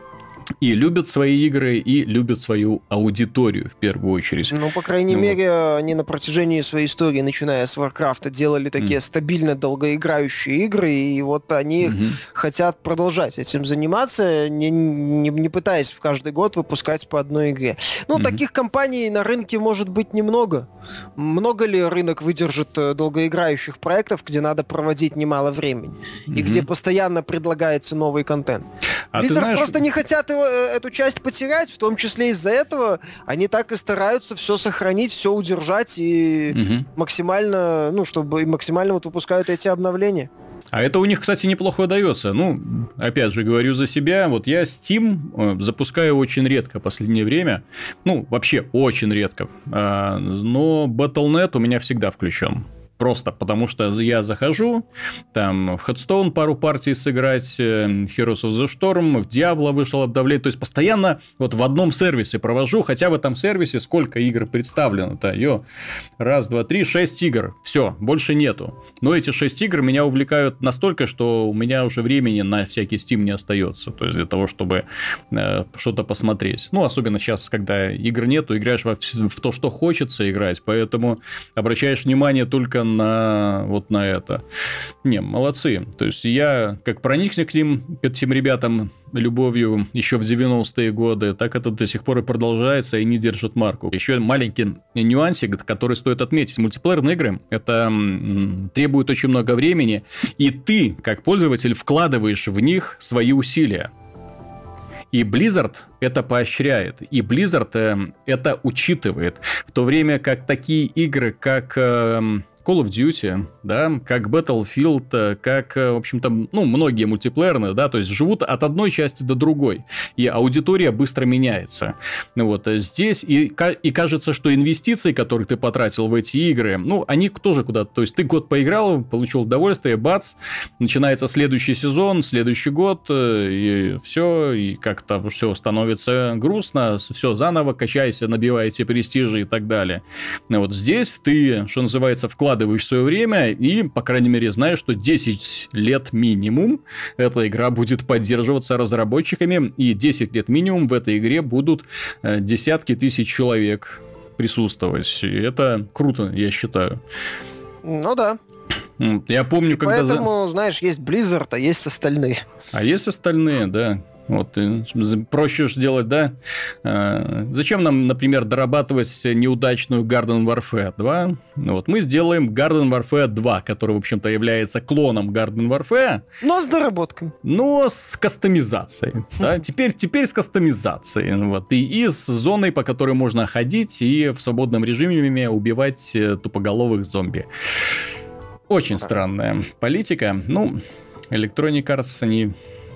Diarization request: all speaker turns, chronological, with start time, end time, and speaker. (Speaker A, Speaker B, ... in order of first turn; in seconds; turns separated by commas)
Speaker A: 0.6-4.6, Speaker B: 4.5-40.3, Speaker A: 5.1-5.4, Speaker A: 11.8-12.2, Speaker A: 18.1-18.4, Speaker A: 26.3-26.7, Speaker A: 29.1-29.8, Speaker A: 36.5-36.9, Speaker A: 40.7-65.6, Speaker A: 66.2-84.4, Speaker A: 85.0-103.9, Speaker A: 105.1-157.0, Speaker B: 157.8-158.4, Speaker A: 159.0-160.3, Speaker B: 159.7-162.4, Speaker A: 162.7-176.2, Speaker B: 176.4-177.3, Speaker A: 177.4-187.5, Speaker A: 188.7-192.5